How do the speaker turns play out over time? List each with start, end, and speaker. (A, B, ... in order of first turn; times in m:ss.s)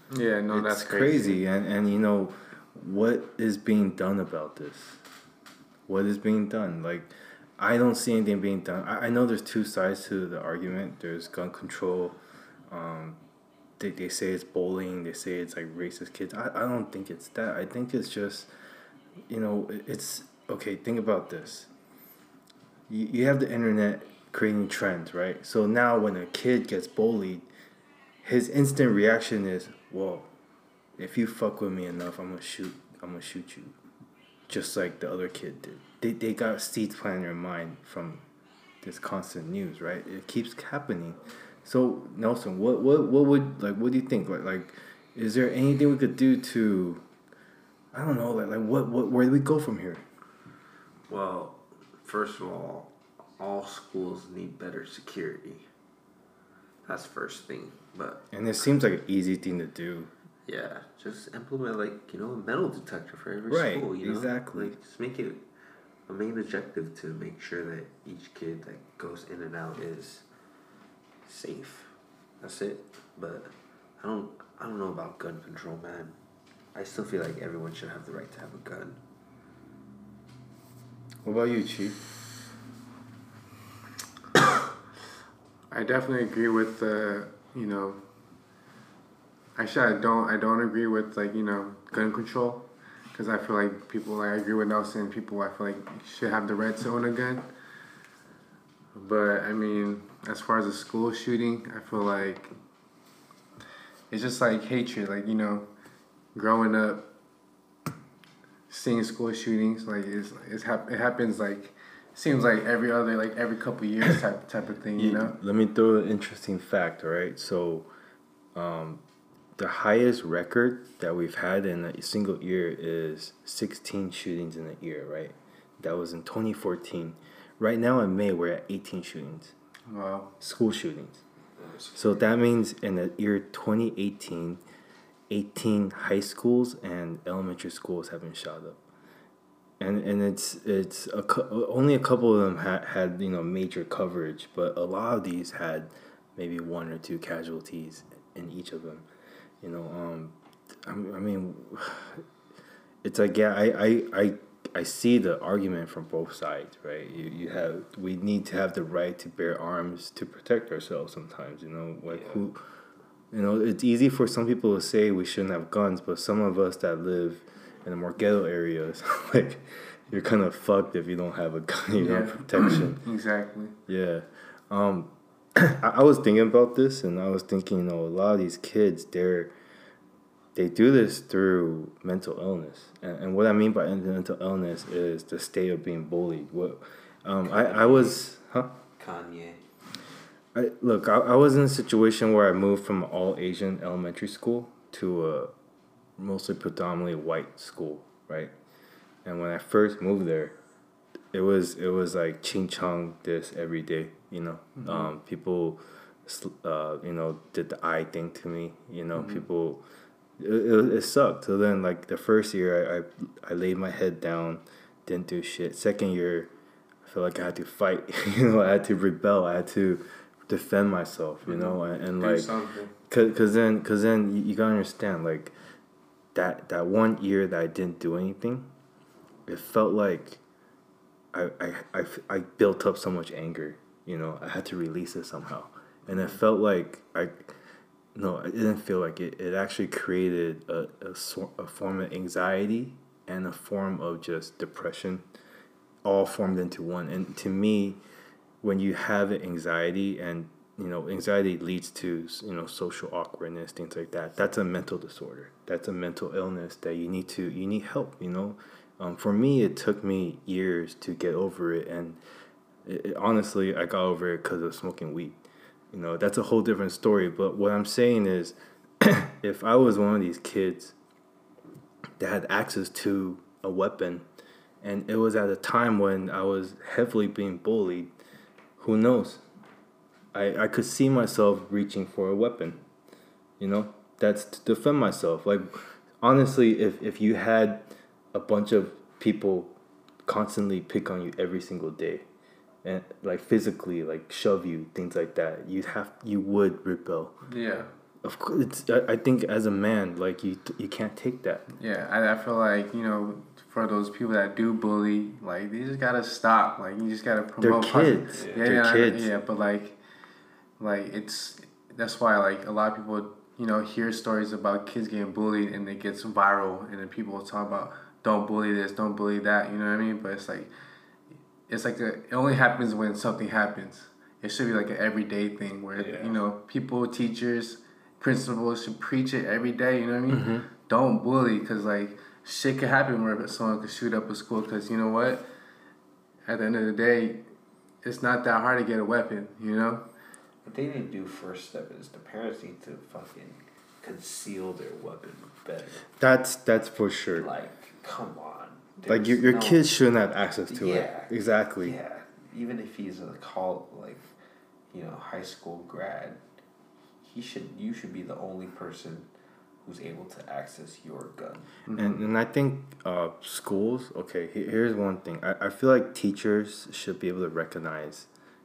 0:00.1-0:01.4 A
0:00.5-0:05.0 B
0:05.9-0:12.2 B
0:12.7-0:13.2 B
0:13.8-0:18.5 B
0:19.3-0:21.7 B
0:22.9-0:27.5 B
0:28.2-0:30.3 B
0:31.0-0:33.8 B
0:34.5-0:38.2 B
0:38.8-0:47.0 B
0:47.9-0:50.0 B
0:51.1-0:55.7 C
0:56.9-0:58.2 C
0:58.3-1:00.1 B
1:00.5-1:05.4 C
1:03.5-1:04.8 B
1:06.1-1:10.2 C
1:11.3-1:16.2 C
1:16.7-1:19.0 C
1:21.2-1:22.0 B
1:25.7-1:28.0 A
1:29.6-1:37.5 A
1:39.0-1:42.5 A
1:44.1-1:45.7 A
1:46.4-1:47.1 A
1:48.7-1:55.4 A
1:55.0-1:57.9 B
1:58.6-1:59.0 B
1:59.6-2:09.5 B
2:09.9-2:10.3 A
2:10.4-2:11.2 B
2:11.6-2:12.2 C
2:12.0-2:14.6 B
2:15.3-2:18.8 B
2:19.8-2:29.1 B
2:29.6-2:32.2 B
2:33.0-2:42.6 B
2:42.1-2:42.4 C
2:43.3-2:53.0 B
2:52.0-2:53.8 A
2:53.9-2:59.5 B
3:00.6-3:08.8 B
3:07.4-3:08.2 C
3:09.0-3:09.6 C
3:10.5-3:15.5 B
3:16.2-3:18.5 B
3:19.2-3:20.6 B
3:21.3-3:29.8 B
3:24.8-3:25.1 A
3:30.4-3:36.5 B
3:37.0-3:42.5 B
3:41.5-3:42.9 A
3:43.1-3:45.5 B
3:46.3-3:48.7 B
3:49.5-3:50.4 B
3:51.3-3:57.5 B
3:58.2-4:05.2 B
4:06.0-4:08.0 B
4:08.6-4:22.2 B
4:22.8-4:25.4 B
4:25.9-4:30.9 B
4:32.2-4:34.3 B
4:34.8-4:38.1 B
4:38.8-4:39.4 B
4:40.3-4:42.8 B
4:43.6-4:49.7 B
4:50.2-4:52.3 B
4:52.8-4:57.4 B
4:57.5-4:57.9 A
4:58.2-5:01.6 B
5:01.8-5:10.0 A
5:07.6-5:09.3 B
5:08.3-5:08.6 C
5:10.8-5:20.7 A
5:21.7-5:35.5 A
5:26.0-5:26.4 C
5:30.3-5:30.7 B
5:36.5-5:37.4 A
5:38.0-5:40.0 A
5:40.6-5:46.1 C
5:46.2-5:47.5 B
5:47.4-5:49.8 C
5:49.1-5:52.0 B
5:50.7-5:51.3 C
5:51.8-5:54.3 C
5:54.9-5:56.4 C
5:57.2-5:59.3 C
5:59.8-6:01.7 C
6:01.9-6:02.2 A
6:02.0-6:08.3 B